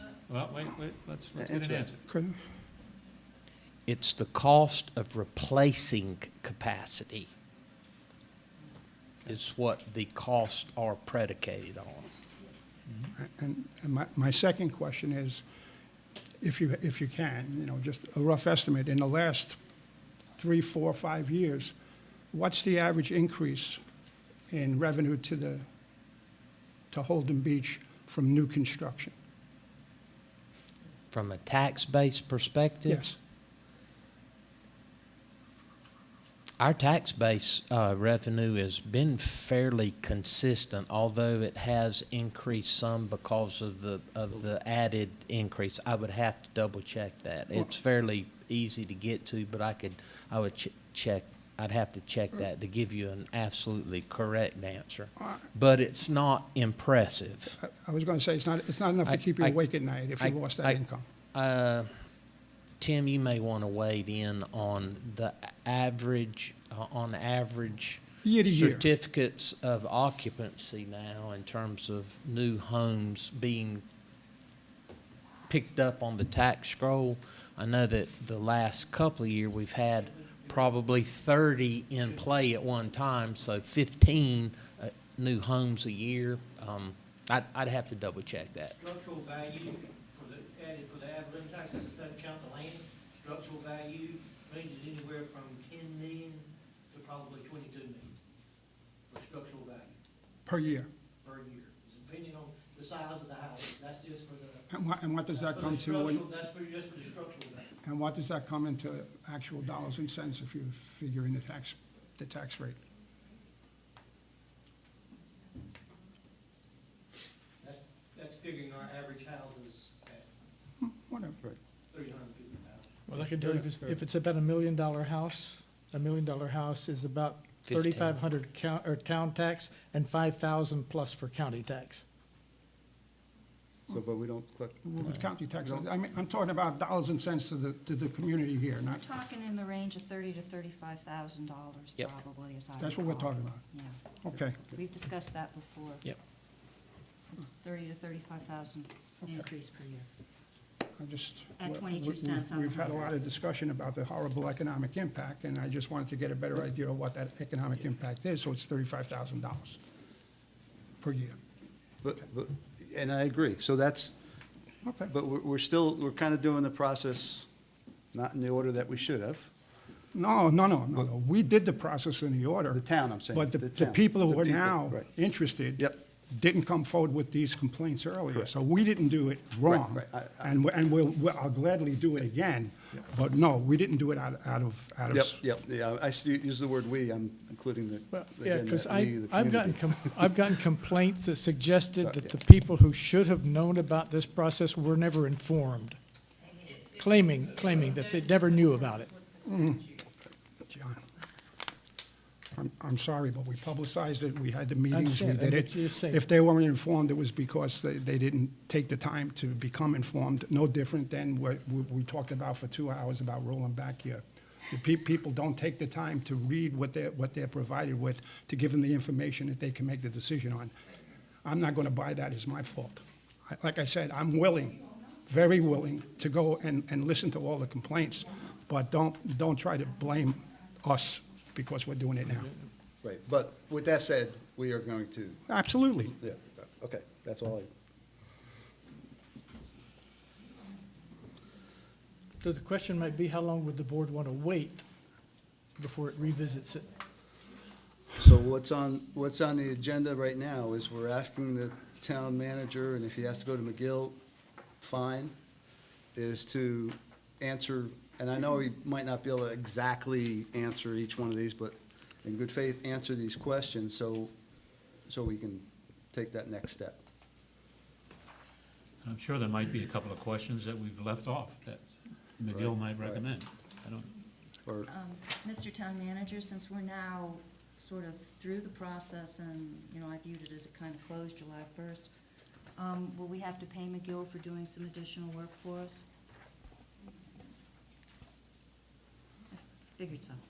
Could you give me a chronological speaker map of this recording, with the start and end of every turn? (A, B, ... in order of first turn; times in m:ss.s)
0:00.3-0:02.0 A
0:01.4-0:01.9 B
0:02.1-0:02.4 C
0:03.8-0:07.3 D
0:09.2-0:12.1 D
0:13.2-0:15.4 C
0:16.4-0:19.6 C
0:20.4-0:21.7 C
0:22.3-0:23.8 C
0:24.5-0:25.6 C
0:26.9-0:29.1 C
0:31.1-0:33.0 D
0:32.8-0:33.2 C
0:36.6-0:57.6 D
0:57.6-1:01.0 C
0:59.0-0:59.6 D
1:00.2-1:00.8 D
1:01.3-1:01.9 D
1:02.8-1:13.8 D
1:08.2-1:08.8 C
1:15.5-1:28.8 D
1:20.1-1:20.8 E
1:28.7-1:38.1 E
1:39.1-1:40.0 E
1:40.4-1:40.9 C
1:41.2-1:44.6 E
1:44.7-1:46.2 C
1:45.3-1:47.7 E
1:47.8-1:52.8 C
1:57.6-2:00.3 E
2:00.8-2:01.4 C
2:01.9-2:03.0 E
2:03.1-2:12.0 F
2:07.6-2:08.2 D
2:13.9-2:15.9 B
2:14.8-2:19.0 C
2:18.9-2:24.0 G
2:22.8-2:23.6 C
2:24.2-2:24.6 C
2:24.6-2:26.2 G
2:27.4-2:30.1 G
2:31.0-2:39.8 C
2:31.6-2:33.1 G
2:41.0-2:41.4 C
2:42.0-2:44.1 B
2:44.8-2:45.1 C
2:45.1-2:47.5 B
2:48.1-2:49.5 B
2:50.1-3:05.4 C
2:52.7-2:55.1 B
2:59.6-3:00.6 B
3:05.1-3:10.5 B
3:08.1-3:16.0 F
3:12.0-3:12.4 B
3:16.8-3:19.1 F
3:19.4-3:19.9 C
3:20.7-3:21.0 C
3:22.5-3:40.8 C
3:24.9-3:26.2 F
3:41.4-3:52.5 C
3:53.0-3:55.4 B
3:55.5-3:56.2 C
3:56.2-3:57.7 B
4:02.4-4:04.8 F
4:05.8-4:06.9 F
4:08.2-4:14.2 B
4:14.8-4:15.3 B
4:16.1-4:24.3 B
4:25.1-4:27.0 B
4:29.0-4:31.8 A
4:32.4-4:34.1 A
4:32.5-4:33.2 B
4:34.9-4:42.1 G
4:42.8-4:46.0 G
4:49.5-4:50.4 G